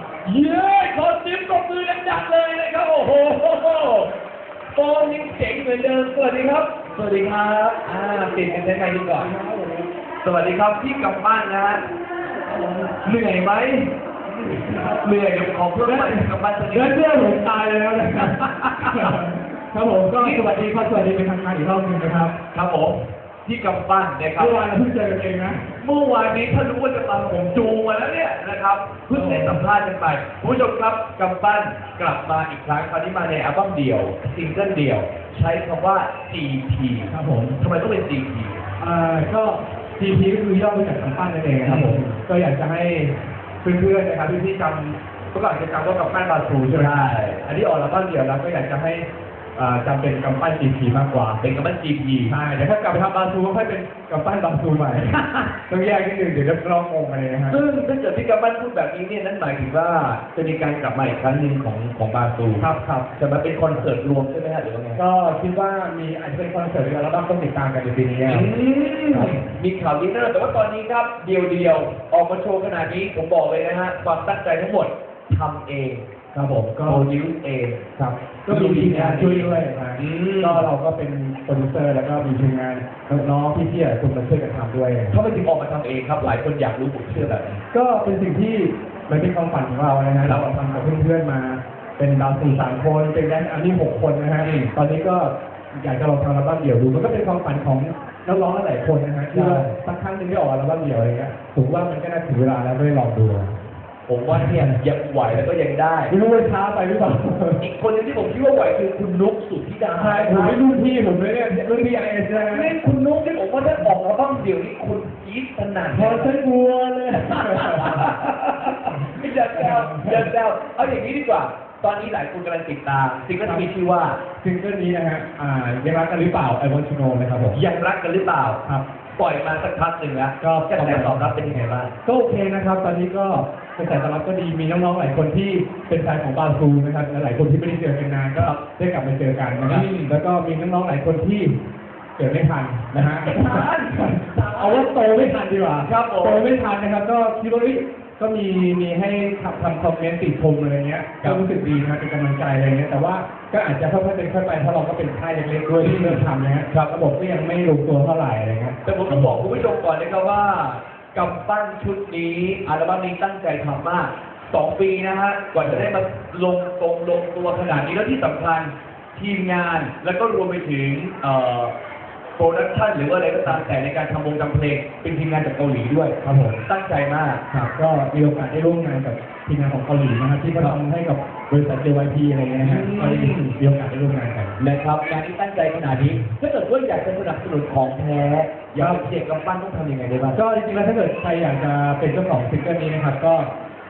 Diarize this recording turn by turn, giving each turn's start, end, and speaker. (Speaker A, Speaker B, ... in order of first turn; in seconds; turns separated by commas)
Speaker A: 0.2-4.1, Speaker A: 4.7-9.3, Speaker B: 9.2-9.9, Speaker A: 10.2-11.8, Speaker A: 12.9-13.9, Speaker B: 14.4-14.9, Speaker A: 14.8-17.0, Speaker B: 15.8-22.4, Speaker A: 20.2-20.5, Speaker A: 22.5-24.7, Speaker B: 24.4-25.7, Speaker A: 25.8-38.6, Speaker B: 29.1-29.6, Speaker B: 37.1-37.6, Speaker B: 38.8-51.4, Speaker A: 41.6-42.1, Speaker A: 46.7-47.4, Speaker A: 51.4-52.3, Speaker B: 52.3-57.6, Speaker A: 57.5-65.0, Speaker B: 62.6-63.1, Speaker B: 65.0-68.5, Speaker A: 68.2-76.1, Speaker B: 69.1-69.4, Speaker B: 76.3-77.0, Speaker A: 76.8-80.7, Speaker B: 78.0-85.2, Speaker A: 85.1-87.6, Speaker B: 87.7-103.6, Speaker A: 90.2-90.5, Speaker A: 94.4-94.7, Speaker A: 99.3-99.7, Speaker A: 104.1-106.1, Speaker B: 104.3-104.8, Speaker B: 106.1-107.6, Speaker A: 107.6-110.6, Speaker B: 110.0-112.7, Speaker A: 112.3-116.3, Speaker B: 115.9-118.2, Speaker A: 117.7-124.2, Speaker B: 118.9-120.3, Speaker B: 123.4-123.7, Speaker B: 124.4-127.6, Speaker A: 127.5-128.6, Speaker A: 129.2-131.9, Speaker B: 130.4-131.3, Speaker B: 132.0-141.6, Speaker A: 138.3-138.6, Speaker A: 139.6-140.1, Speaker B: 142.2-159.4, Speaker A: 142.9-145.3, Speaker A: 145.8-146.4, Speaker A: 155.8-156.9, Speaker A: 158.8-171.7, Speaker B: 165.6-165.9, Speaker A: 172.4-177.6, Speaker B: 176.2-176.6, Speaker B: 177.5-184.6, Speaker A: 182.6-183.5, Speaker A: 184.6-190.4, Speaker B: 186.0-186.3, Speaker B: 188.7-189.0, Speaker B: 190.3-193.5